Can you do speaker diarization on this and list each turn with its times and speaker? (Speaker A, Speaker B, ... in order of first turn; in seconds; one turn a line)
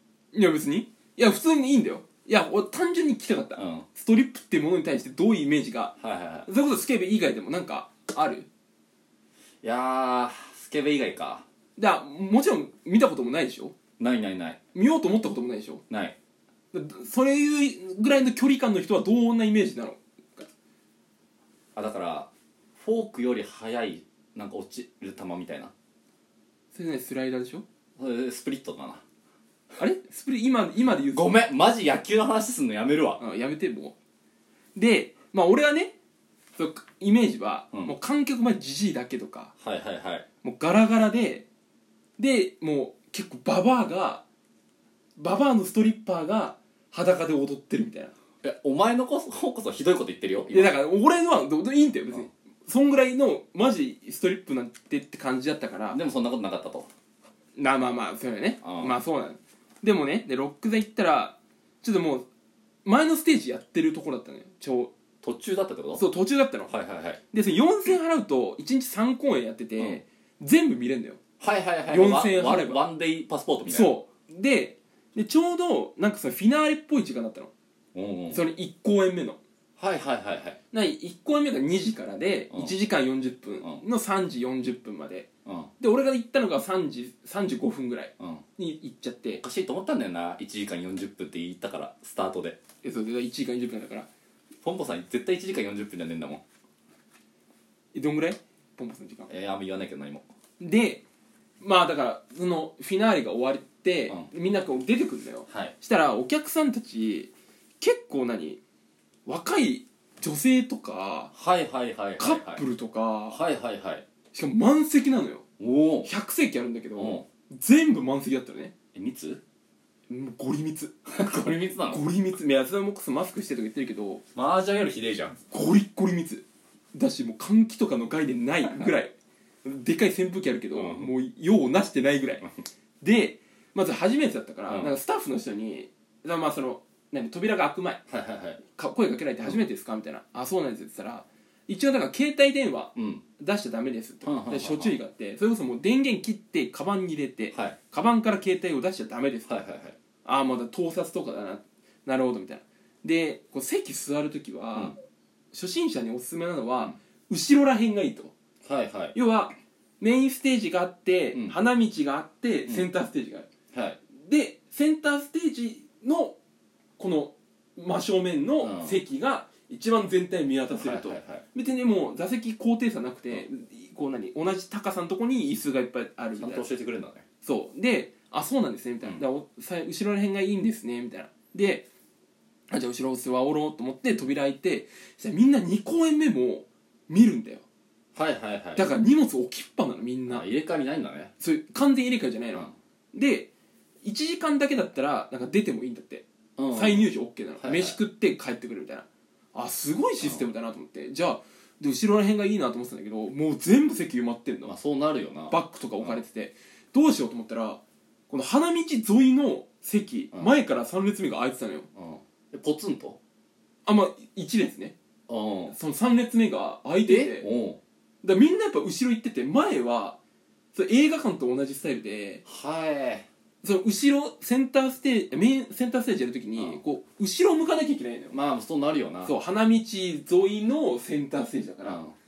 Speaker A: 0.3-5.9
Speaker B: 3.5-3.9
Speaker B: 6.0-6.5
Speaker A: 6.5-8.5
Speaker B: 9.6-11.4
Speaker A: 11.8-13.7
Speaker B: 14.0-14.6
Speaker A: 14.7-15.8
Speaker B: 15.9-16.1
Speaker A: 16.7-20.5
Speaker B: 21.7-25.7
Speaker A: 26.7-27.6
Speaker B: 28.0-29.0
Speaker A: 29.8-31.3
Speaker B: 31.1-33.2
Speaker A: 33.2-34.0
Speaker A: 34.7-35.9
Speaker A: 36.5-39.5
Speaker B: 39.6-40.2
Speaker A: 40.4-41.5
Speaker A: 42.2-44.2
Speaker A: 45.2-48.1
Speaker B: 48.4-50.7
Speaker A: 50.5-56.0
Speaker B: 55.9-56.9
Speaker A: 57.5-62.3
Speaker B: 58.6-59.0
Speaker A: 62.8-64.9
Speaker B: 65.2-66.0
Speaker A: 65.9-66.7
Speaker B: 66.7-67.2
Speaker A: 67.3-71.2
Speaker B: 71.4-73.9
Speaker A: 71.9-72.8
Speaker A: 73.7-77.5
Speaker B: 77.9-78.4
Speaker A: 78.3-79.4
Speaker B: 79.8-80.6
Speaker A: 80.7-85.3
Speaker B: 85.5-85.7
Speaker A: 85.8-89.4
Speaker B: 88.2-88.4
Speaker B: 89.4-92.6
Speaker A: 92.8-94.1
Speaker B: 94.6-96.4
Speaker A: 97.9-99.3
Speaker B: 99.3-100.2
Speaker A: 100.6-101.0
Speaker A: 101.6-108.6
Speaker B: 105.5-105.7
Speaker A: 109.2-111.3
Speaker B: 111.3-112.6
Speaker A: 112.2-113.4
Speaker B: 113.3-114.0
Speaker A: 114.3-115.4
Speaker B: 115.6-116.1
Speaker A: 116.0-118.7
Speaker B: 117.0-117.2
Speaker B: 118.9-119.4
Speaker A: 120.1-121.3
Speaker B: 121.1-122.0
Speaker A: 121.9-124.2
Speaker B: 124.3-125.4
Speaker A: 125.5-132.4
Speaker B: 130.7-131.1
Speaker A: 133.0-138.0
Speaker B: 138.1-138.6
Speaker A: 138.7-149.5
Speaker B: 142.9-143.2
Speaker B: 144.2-144.9
Speaker B: 147.5-147.8
Speaker B: 149.5-149.9
Speaker A: 150.2-155.0
Speaker A: 155.5-158.3
Speaker B: 158.6-159.2
Speaker A: 159.1-163.5
Speaker B: 163.7-164.0
Speaker A: 164.2-166.4
Speaker A: 167.0-176.7
Speaker B: 168.6-169.0
Speaker B: 170.7-171.4
Speaker B: 176.4-177.2
Speaker A: 177.4-181.8
Speaker A: 182.7-187.6
Speaker B: 188.1-188.9
Speaker A: 188.8-190.4
Speaker B: 190.3-191.3
Speaker A: 191.4-193.5
Speaker A: 194.0-204.7
Speaker B: 196.6-197.1
Speaker B: 197.6-198.0
Speaker B: 200.2-200.4
Speaker B: 204.6-206.2
Speaker A: 205.5-211.9
Speaker B: 211.9-213.2
Speaker A: 213.8-214.9
Speaker B: 215.3-215.8
Speaker A: 215.7-217.5
Speaker B: 217.1-217.8
Speaker A: 218.2-220.2
Speaker A: 220.7-222.4
Speaker B: 222.4-223.3
Speaker A: 223.6-228.3
Speaker B: 226.6-226.8
Speaker B: 228.3-229.3
Speaker A: 229.2-232.0
Speaker B: 231.8-232.1